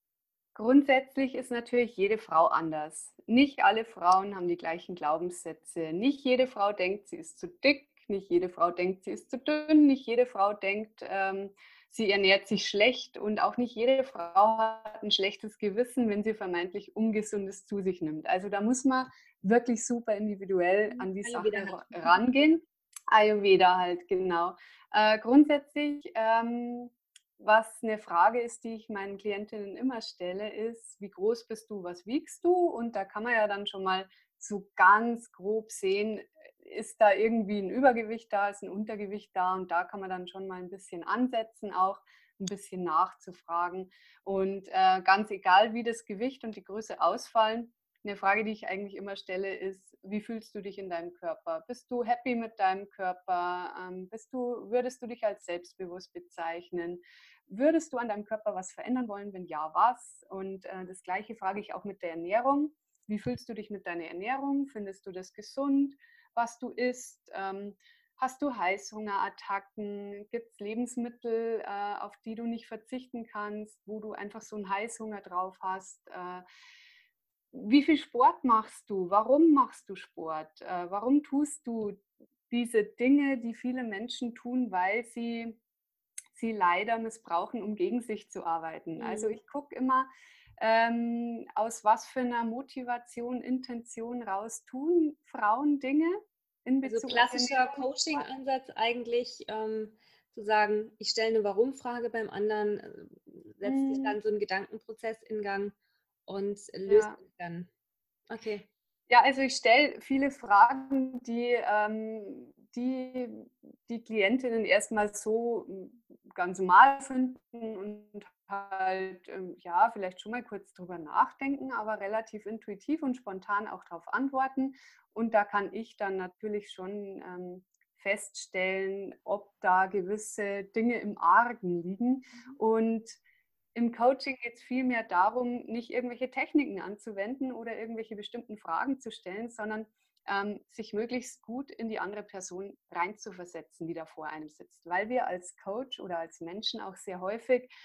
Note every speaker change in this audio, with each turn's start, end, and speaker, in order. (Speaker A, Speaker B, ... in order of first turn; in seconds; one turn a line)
Speaker A: 0.6-76.4
Speaker B: 20.9-22.2
Speaker A: 77.5-85.6
Speaker A: 86.3-90.1
Speaker B: 89.0-89.4
Speaker A: 90.6-98.3
Speaker B: 96.8-105.8
Speaker A: 103.7-104.2
Speaker B: 106.3-107.7
Speaker A: 106.9-107.2
Speaker B: 108.3-108.7
Speaker A: 109.1-133.2
Speaker A: 133.8-147.7